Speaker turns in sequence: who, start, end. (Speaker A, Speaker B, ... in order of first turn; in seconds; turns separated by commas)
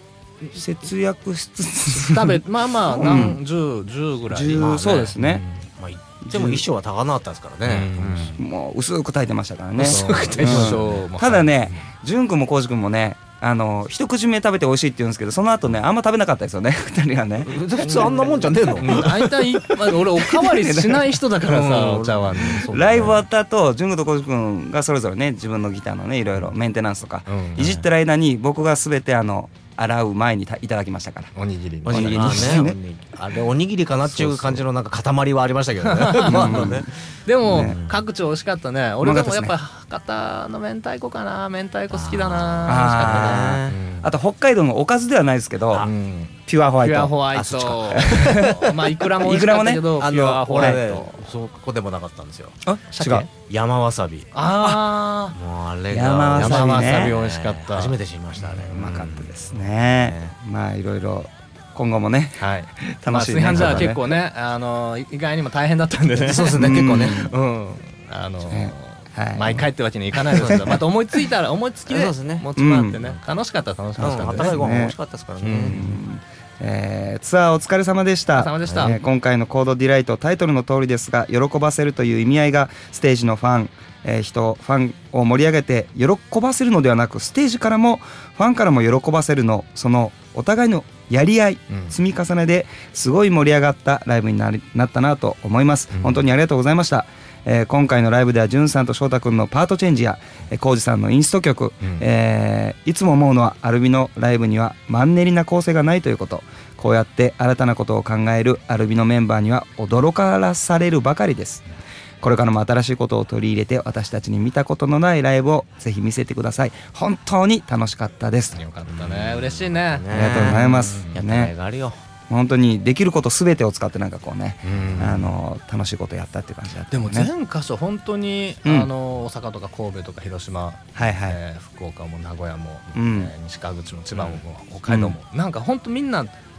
Speaker A: 0.5-3.4, Speaker B: 1.9-5.5, Speaker C: 3.0-3.4, Speaker A: 4.3-5.4, Speaker C: 4.6-8.4, Speaker A: 6.2-6.6, Speaker B: 7.7-8.3, Speaker A: 8.4-18.2, Speaker C: 9.8-11.0, Speaker B: 9.8-11.8, Speaker C: 17.4-19.8, Speaker B: 17.8-23.2, Speaker A: 20.3-21.1, Speaker C: 21.4-23.2, Speaker A: 22.7-31.3, Speaker B: 27.3-27.7, Speaker C: 27.6-27.8, Speaker B: 31.4-32.6, Speaker C: 31.9-36.9, Speaker A: 31.9-32.8, Speaker A: 34.3-34.6, Speaker B: 35.8-43.5, Speaker A: 36.3-36.9, Speaker A: 37.4-37.8, Speaker C: 37.5-38.0, Speaker A: 39.0-39.5, Speaker C: 41.9-44.1, Speaker A: 42.7-45.9, Speaker B: 45.7-51.2, Speaker A: 46.5-50.0, Speaker C: 47.9-48.8, Speaker C: 50.0-54.3, Speaker A: 50.5-50.8, Speaker A: 52.7-53.3, Speaker B: 53.0-53.3, Speaker B: 54.3-55.4, Speaker C: 55.3-60.3, Speaker A: 55.9-57.1, Speaker B: 56.4-58.7, Speaker A: 58.7-64.0, Speaker B: 62.4-74.6, Speaker C: 63.5-63.9, Speaker C: 66.2-67.3, Speaker A: 66.5-67.3, Speaker A: 68.5-69.6, Speaker A: 70.3-70.8, Speaker C: 70.4-70.8, Speaker C: 71.9-72.5, Speaker A: 72.6-73.0, Speaker A: 74.0-75.0, Speaker C: 74.0-75.8, Speaker B: 75.4-76.0, Speaker A: 75.7-111.7, Speaker B: 78.4-79.0, Speaker A: 112.2-118.6, Speaker B: 118.6-121.1, Speaker C: 118.9-122.0, Speaker A: 120.1-121.5, Speaker A: 122.3-127.3, Speaker B: 124.7-125.3, Speaker C: 124.7-125.3, Speaker B: 126.9-136.3, Speaker A: 128.7-128.9, Speaker A: 131.0-131.4, Speaker A: 132.9-133.3, Speaker A: 134.9-135.2